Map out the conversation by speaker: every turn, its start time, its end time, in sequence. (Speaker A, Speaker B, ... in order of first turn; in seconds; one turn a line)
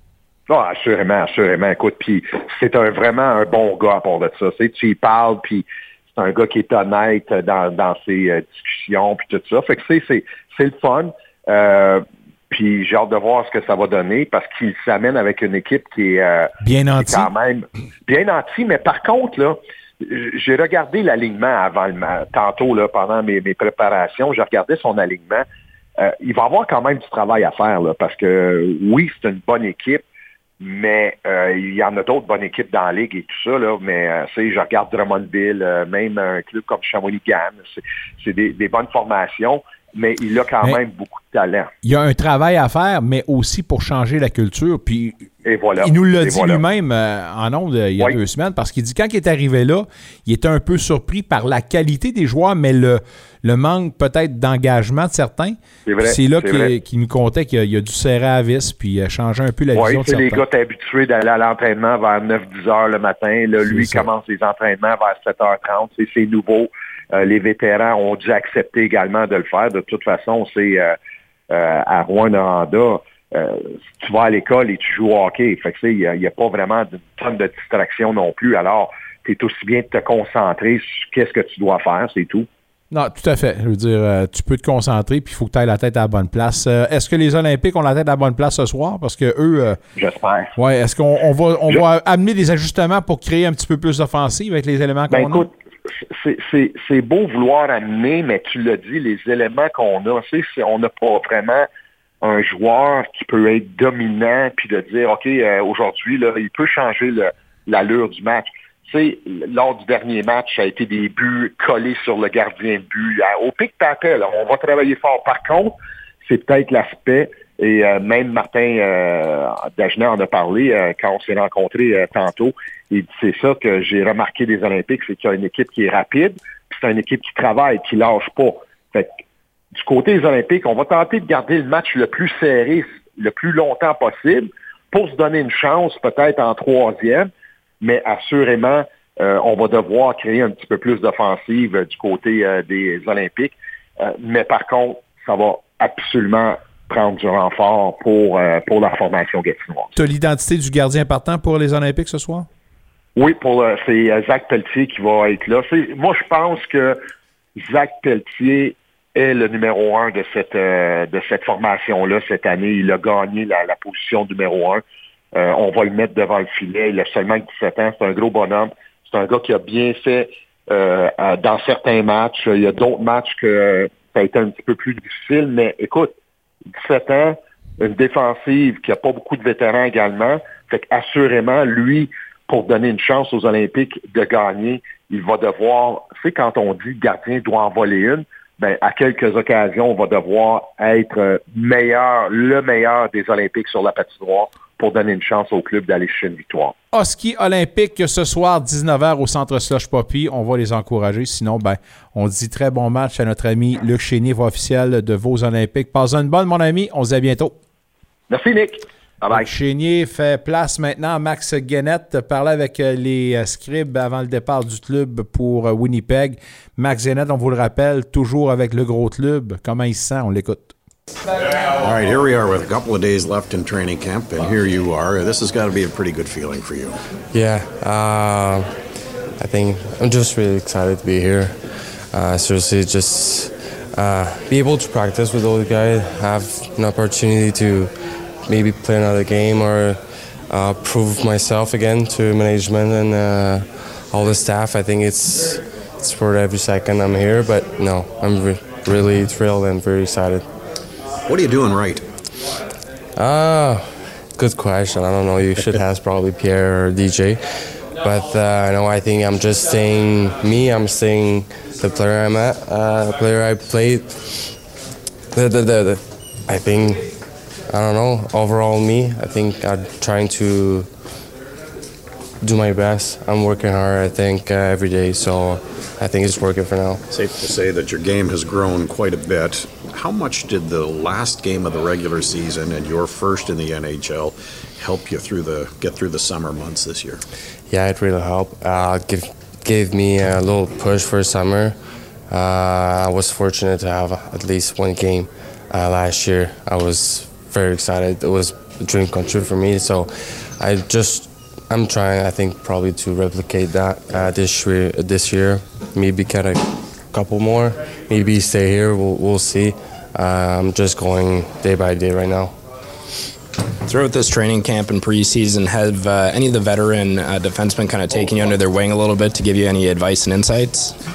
Speaker A: 0.5-25.4
Speaker B: 16.6-17.3
Speaker A: 26.0-30.0
Speaker A: 30.6-41.7
Speaker B: 41.8-45.3
Speaker A: 45.4-46.6
Speaker B: 45.8-60.4
Speaker A: 55.9-56.7
Speaker A: 59.7-70.9
Speaker B: 63.6-64.1
Speaker A: 71.5-82.5
Speaker B: 82.9-89.8
Speaker A: 90.0-90.5
Speaker B: 90.6-95.5
Speaker A: 95.1-101.7
Speaker A: 102.2-115.7
Speaker A: 116.2-129.1
Speaker A: 129.8-137.3
Speaker A: 137.8-150.0
Speaker B: 149.9-152.5
Speaker A: 153.2-157.0
Speaker A: 157.6-164.8
Speaker A: 165.3-176.2
Speaker A: 176.8-196.7
Speaker B: 196.9-207.6
Speaker A: 208.3-209.5
Speaker B: 209.3-220.7
Speaker C: 221.8-226.9
Speaker D: 227.3-228.7
Speaker D: 229.4-231.6
Speaker D: 232.1-237.9
Speaker D: 238.4-250.5
Speaker C: 251.3-252.0
Speaker D: 253.2-257.4
Speaker D: 258.0-264.5
Speaker D: 265.3-267.2
Speaker D: 267.7-270.9
Speaker D: 272.4-277.0
Speaker C: 277.1-287.2
Speaker D: 287.7-291.8
Speaker D: 292.3-312.5
Speaker E: 313.9-321.0